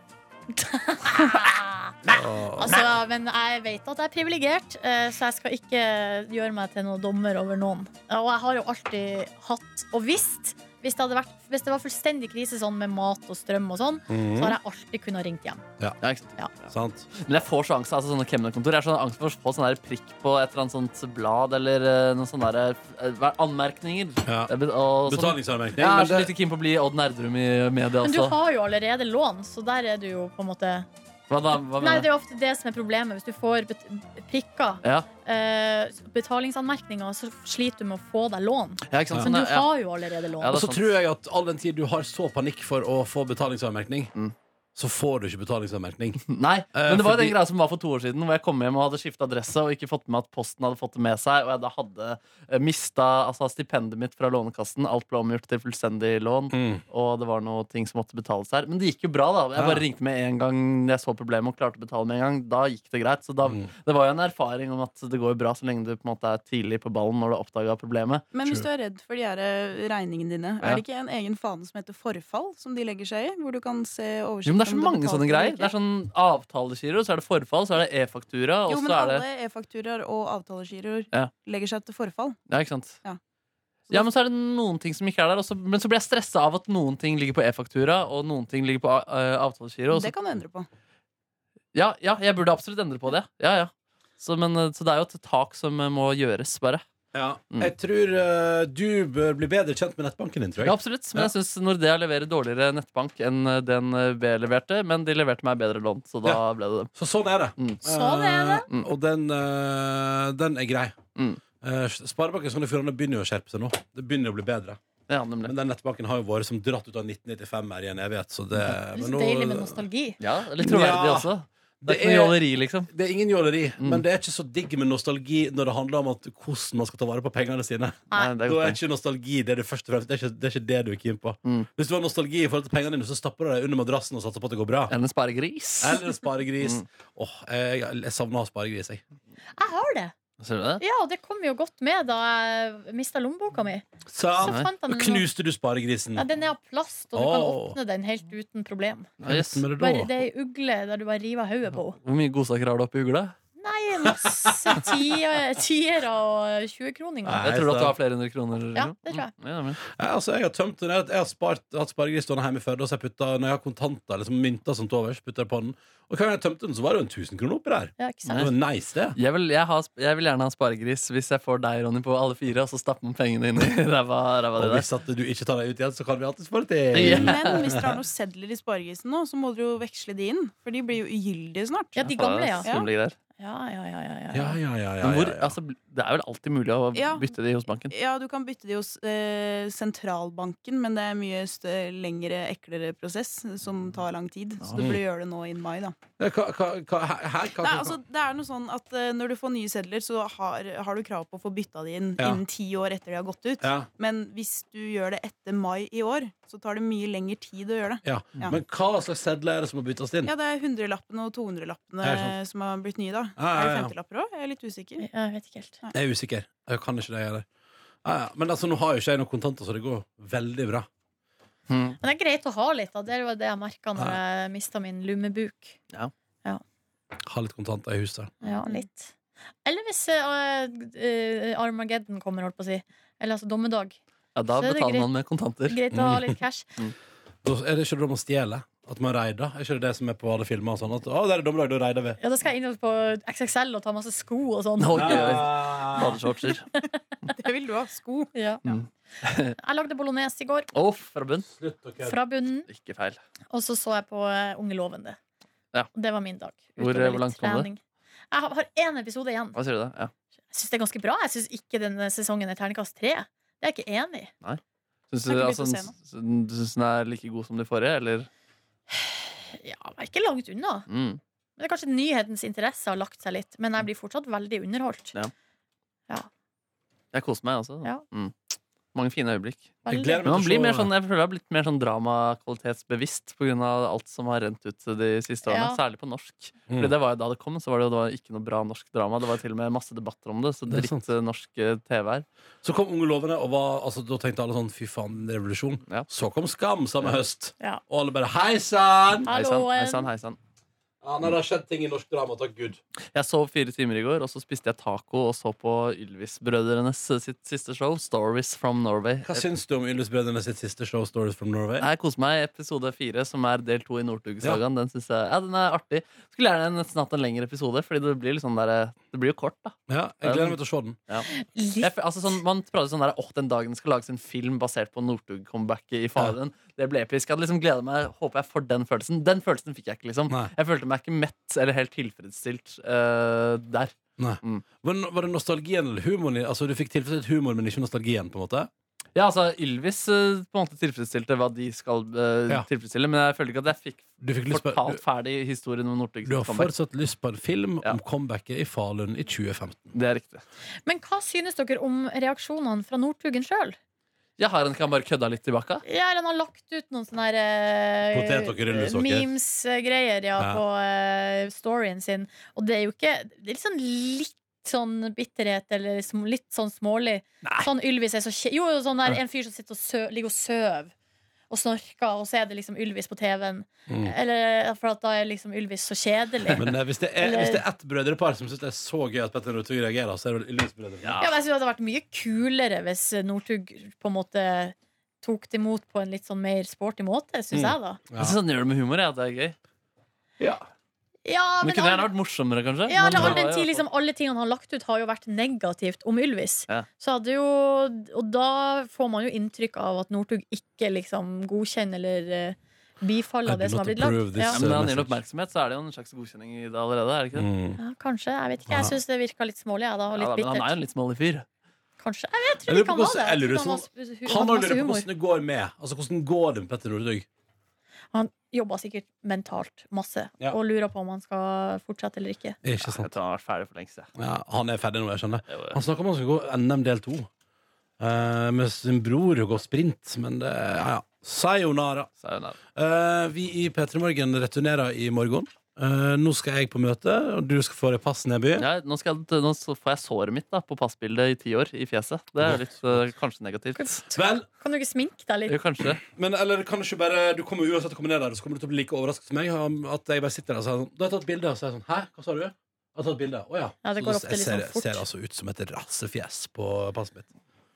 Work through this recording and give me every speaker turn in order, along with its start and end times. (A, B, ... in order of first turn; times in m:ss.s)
0:00.6-0:01.5 A
0:01.2-0:02.2 B
0:02.1-0:02.8 C
0:02.5-0:15.6 A
0:14.1-0:14.6 C
0:16.0-0:28.4 B
0:16.7-0:17.1 C
0:24.2-0:24.5 C
0:25.0-0:26.3 C
0:28.0-0:30.9 A
0:31.3-0:32.1 B
0:31.7-0:40.6 A
0:38.9-0:39.7 B
0:40.4-0:40.9 B
0:40.4-0:44.1 C
0:44.8-0:47.4 C
0:46.3-1:08.2 B
0:56.5-0:56.8 C
0:59.6-0:59.8 C
1:03.4-1:03.7 C
1:08.3-1:15.7 D
1:14.4-1:19.2 B
1:18.7-1:22.4 D
1:22.5-1:23.0 B
1:23.9-1:30.1 B
1:29.9-1:30.7 D
1:31.7-1:36.8 B
1:37.1-1:41.3 C
1:40.6-1:46.9 B
1:46.9-1:51.0 C
1:47.6-1:47.8 B
1:47.8-1:48.6 A
1:51.2-1:51.4 B
1:51.6-1:54.8 C
1:55.1-1:55.5 B
1:55.4-1:59.8 C
1:58.9-2:00.2 A
2:00.2-2:02.9 B
2:00.6-2:14.9 C
2:08.1-2:08.8 B
2:14.9-2:16.0 B
2:15.8-2:19.0 C
2:19.6-2:20.1 A
2:20.4-2:20.8 B
2:20.8-2:23.8 A
2:24.1-2:26.2 C
2:24.4-2:25.2 A
2:24.4-2:24.7 B
2:26.2-2:29.1 A
2:27.1-2:27.8 C
2:29.2-2:29.6 B
2:29.3-2:30.2 C
2:29.8-2:32.0 A
2:32.0-2:33.3 B
2:33.6-2:37.5 A
2:37.2-2:38.0 C
2:37.4-2:39.8 B
2:38.7-2:39.3 A
2:39.9-2:49.2 C
2:48.0-2:48.4 A
2:49.1-2:54.9 B
2:54.6-2:58.0 C
2:56.9-2:57.7 B
2:57.0-3:02.0 D
3:01.9-3:02.7 A
3:02.0-3:03.1 B
3:02.6-3:02.9 D
3:03.4-3:04.6 A
3:04.3-3:05.5 C
3:05.0-3:07.9 B
3:06.9-3:07.3 D
3:07.9-3:16.0 D
3:14.6-3:14.9 B
3:16.2-3:18.0 C
3:17.6-3:28.6 D
3:23.6-3:23.9 C
3:28.0-3:30.3 C
3:30.2-3:35.1 D
3:32.0-3:32.4 C
3:33.4-3:33.9 C
3:35.0-3:35.8 A
3:35.9-3:37.4 C
3:38.0-3:40.9 C
3:41.7-3:42.0 B
3:42.0-3:45.8 A
3:47.2-3:48.3 C
3:48.4-3:49.1 A
3:48.4-3:48.8 B
3:49.6-3:54.0 A
3:54.3-3:55.8 B
3:54.5-3:55.1 A
3:55.6-3:56.7 A
3:55.9-3:56.4 C
3:57.4-4:02.2 C
4:02.2-4:05.5 A
4:04.8-4:06.7 B
4:04.9-4:06.2 C
4:06.0-4:07.0 A
4:07.3-4:08.3 D
4:08.3-4:08.8 A
4:08.6-4:09.5 B
4:09.5-4:10.7 A
4:10.7-4:11.5 B
4:11.5-4:12.2 C
4:12.0-4:12.7 A
4:12.7-4:13.2 B
4:13.5-4:15.2 A
4:15.9-4:17.8 A
4:16.8-4:17.7 B
4:18.3-4:19.6 A
4:19.5-4:20.1 B
4:20.5-4:24.3 A
4:25.1-4:28.3 B
4:25.3-4:25.9 D
4:28.9-4:30.9 A
4:30.9-4:31.2 B
4:31.6-4:35.1 A
4:37.1-4:38.4 B
4:38.9-4:39.7 B
4:39.8-4:40.2 A
4:39.8-4:40.9 C
4:40.2-4:52.2 B
4:45.5-4:45.8 A
4:50.7-4:51.0 C
4:52.6-4:59.3 C
4:59.2-5:00.1 A
4:59.3-5:00.4 B
5:01.0-5:02.8 C
5:03.1-5:09.4 B
5:09.2-5:11.9 C
5:11.8-5:21.3 B
5:19.9-5:21.0 C
5:21.3-5:21.9 A
5:21.8-5:34.6 B
5:34.2-5:38.7 C
5:39.1-5:46.7 B
5:44.2-5:45.0 C
5:46.2-5:49.9 C
5:49.9-5:50.4 B
5:50.8-5:53.8 A
5:54.4-5:55.8 B
5:55.8-6:10.9 A
5:58.1-5:59.3 C
6:00.4-6:00.6 C
6:11.5-6:17.6 A
6:13.9-6:14.1 C
6:16.6-6:21.2 C
6:21.0-6:21.4 B
6:21.2-6:28.0 A
6:27.5-6:28.3 C
6:28.2-6:29.6 B
6:31.2-6:32.1 A
6:31.6-6:33.8 B
6:32.8-6:44.6 A
6:33.1-6:33.4 C
6:43.4-6:45.2 C
6:44.5-6:47.5 B
6:47.3-6:47.8 C
6:47.8-6:50.7 A
6:48.7-6:49.0 C
6:50.1-6:51.4 B
6:52.0-6:55.1 A
6:52.6-6:57.2 C
6:58.1-7:02.6 A
7:02.6-7:03.1 C
7:02.8-7:04.1 B
7:04.2-7:07.3 C
7:05.5-7:05.8 B
7:08.0-7:12.1 C
7:12.2-7:12.6 B
7:12.8-7:18.7 C
7:18.6-7:23.9 B
7:22.4-7:23.0 C
7:23.7-7:25.6 A
7:24.1-7:24.4 C
7:25.5-7:26.0 B
7:26.0-7:37.3 C
7:33.8-7:35.0 A